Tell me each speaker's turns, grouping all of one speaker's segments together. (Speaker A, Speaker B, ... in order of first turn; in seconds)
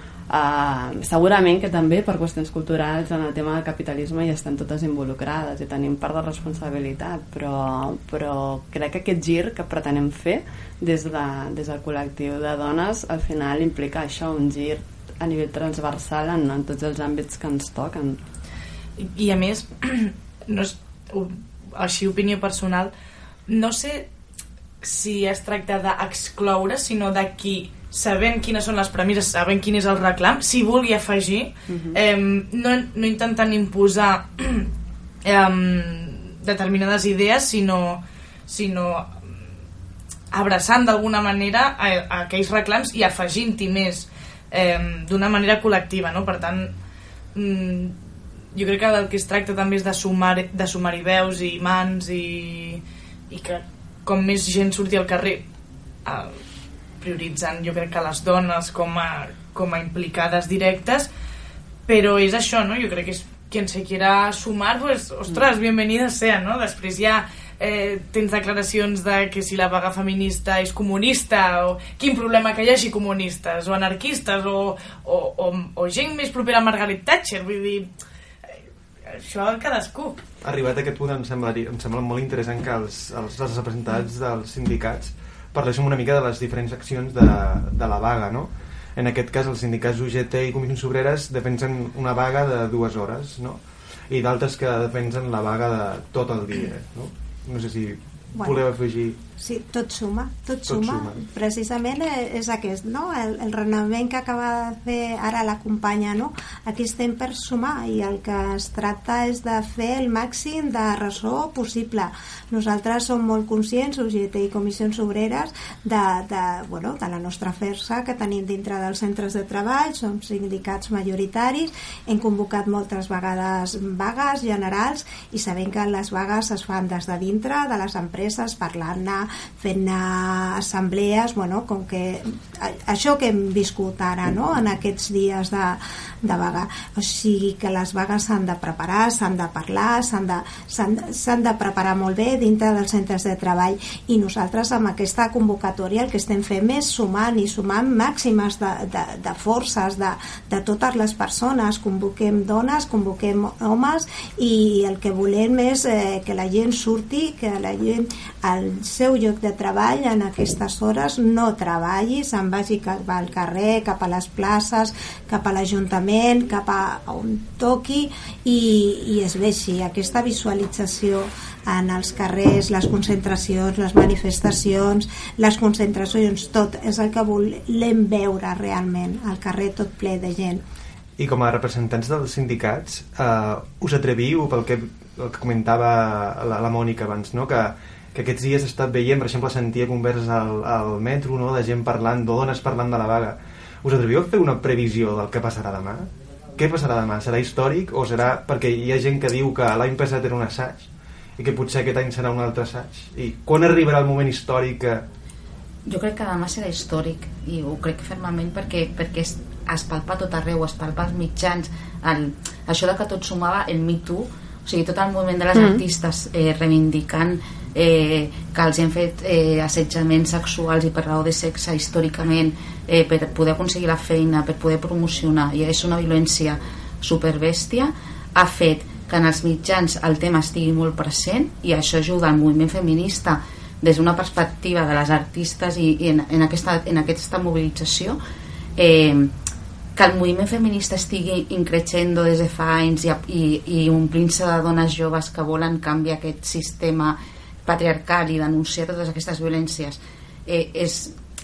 Speaker A: 0.3-18.2, 31.7-32.0, 215.5-215.8
Speaker B: 19.0-22.9, 23.5-24.1, 24.8-34.7, 35.2-39.2, 40.3-46.7, 47.3-48.0, 48.5-55.4, 56.0-56.4, 57.0-61.1, 61.9-77.9, 79.1-80.2
Speaker C: 80.4-99.2, 100.7-101.2, 181.2-205.1
Speaker D: 99.4-180.6
Speaker E: 205.9-238.2, 238.8-239.3, 239.9-251.2